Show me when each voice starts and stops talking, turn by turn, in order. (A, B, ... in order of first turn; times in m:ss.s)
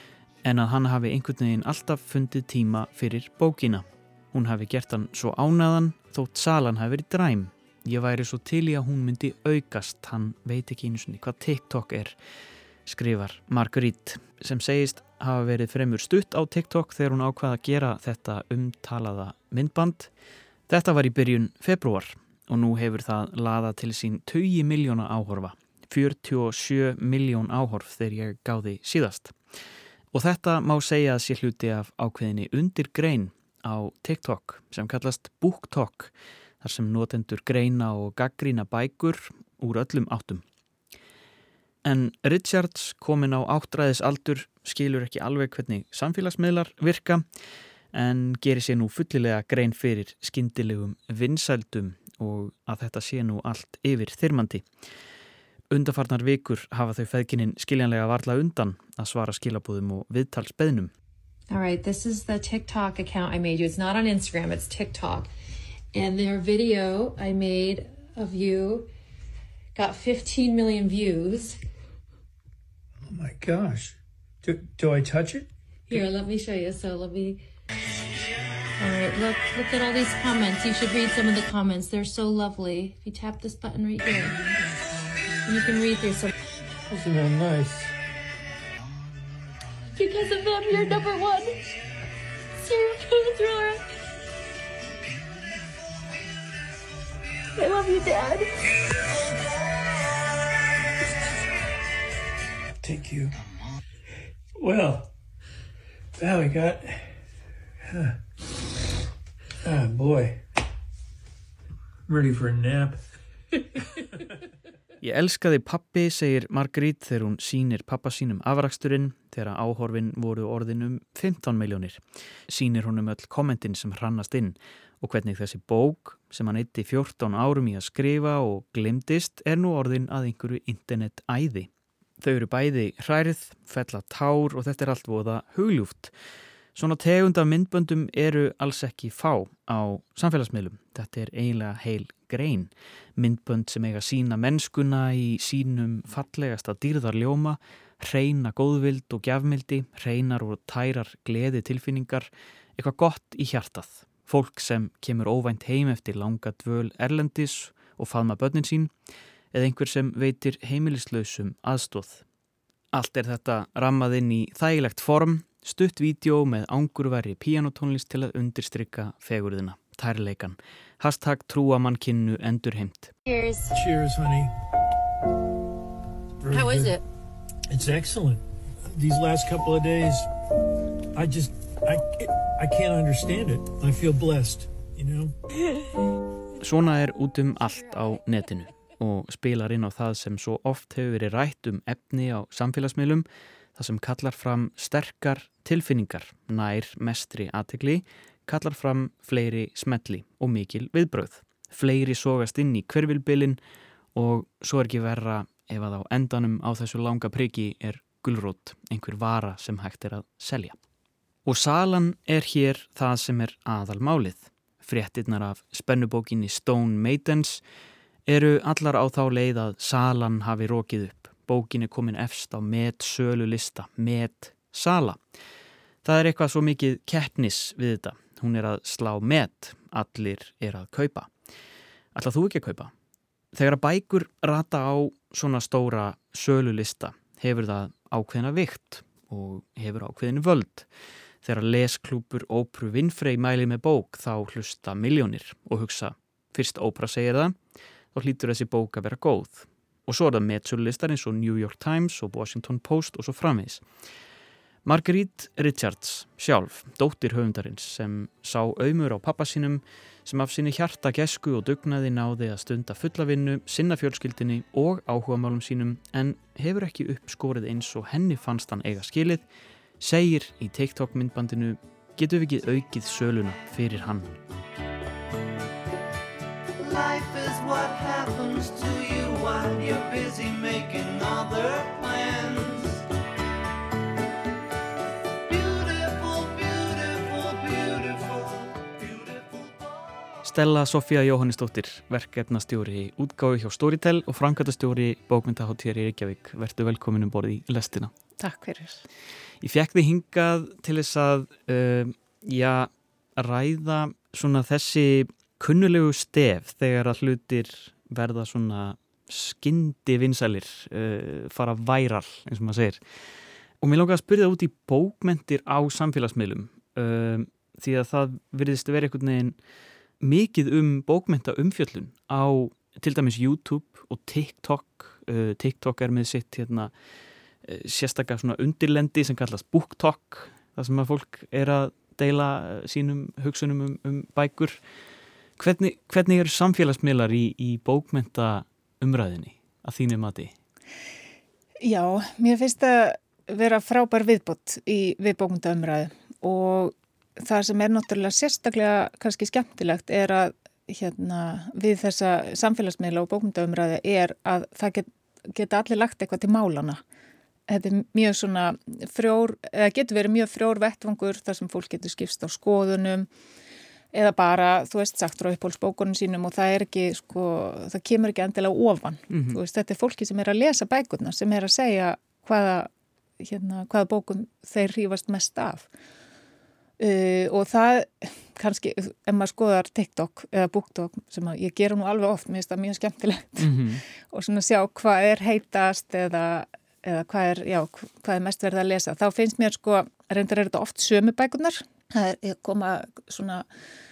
0:00.4-0:12.2 A
0:12.9-0:20.1 A
0:20.7-0:29.4 A
0:30.1-0:40.4 A
0:41.8-0:47.2 A
0:47.9-0:54.7 A
0:55.7-1:00.9 A
1:01.5-1:05.3 B
1:05.9-1:08.9 B
1:09.8-1:11.6 B
1:13.1-1:15.5 C
1:15.9-1:17.4 B
1:18.8-1:24.5 B
1:25.4-1:26.3 B
1:26.9-1:27.9 C
1:29.9-1:31.8 B
1:32.6-1:33.8 B
1:37.6-1:38.5 B
1:42.8-1:43.4 C
1:44.6-1:45.1 C
1:46.2-1:47.2 C
1:47.9-1:48.2 C
1:49.6-1:50.4 C
1:52.1-1:53.0 C
1:55.0-2:16.1 A
2:16.7-2:38.9 A
2:39.5-2:42.2 A
2:42.9-2:53.1 A
2:53.3-2:53.7 B
2:53.7-2:54.5 C
2:56.4-2:57.0 C
2:56.5-2:57.0 B
2:57.7-3:00.3 C
3:01.1-3:05.3 C
3:06.6-3:23.6 A
3:24.2-3:30.8 A
3:31.4-3:37.6 A
3:38.3-3:45.2 A
3:46.0-3:51.3 A
3:52.1-3:52.9 A
3:53.5-4:00.9 A
4:01.4-4:07.6 A
4:08.1-4:13.9 A
4:14.8-4:29.5 A
4:30.0-4:34.4 A
4:36.8-4:43.0 D
4:45.4-4:50.1 D
4:50.4-4:58.1 A
4:58.4-4:59.0 E
4:59.6-5:13.0 A
5:13.8-5:19.6 A
5:20.2-5:26.9 A
5:27.6-5:34.8 A
5:35.6-5:40.6 A
5:41.8-5:57.0 E
5:57.7-6:03.3 E
6:04.1-6:15.9 E
6:09.3-6:09.6 A
6:17.0-6:33.7 E
6:23.6-6:24.0 A